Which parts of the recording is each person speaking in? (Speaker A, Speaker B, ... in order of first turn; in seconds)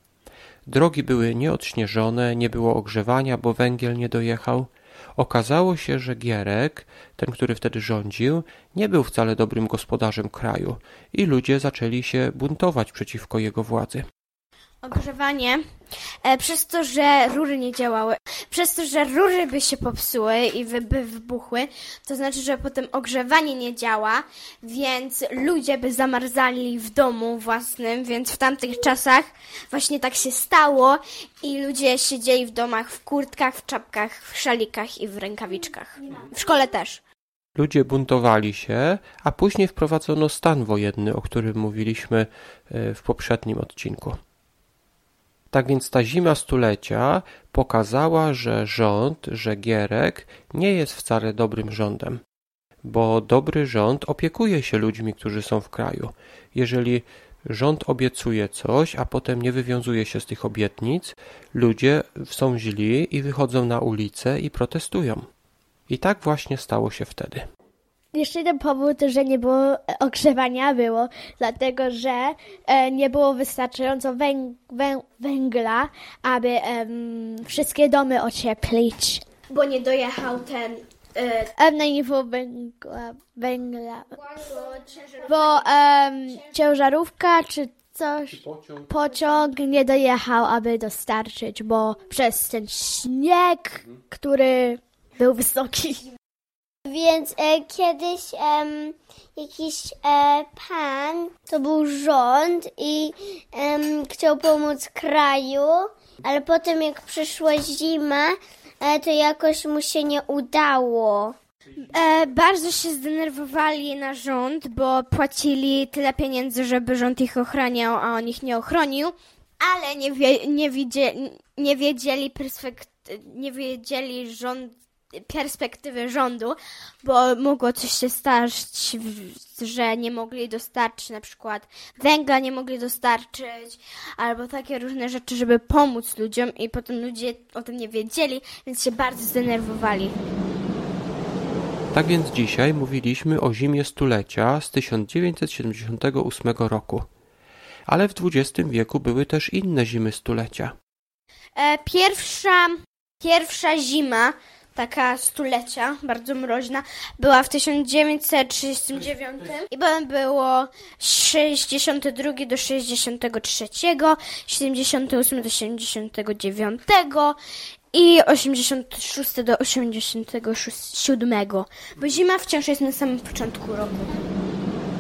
Speaker A: 0.7-14.1, 37.6-44.2, 45.5-52.2, 52.8-65.2, 65.9-67.5, 141.9-147.1, 147.9-150.7
Speaker B: 14.8-15.6, 16.2-37.0, 79.5-81.5, 111.9-124.7, 125.3-140.2, 151.6-167.4, 167.9-174.2
Speaker C: 68.1-79.2, 81.6-84.5, 85.3-96.0
Speaker D: 96.9-111.3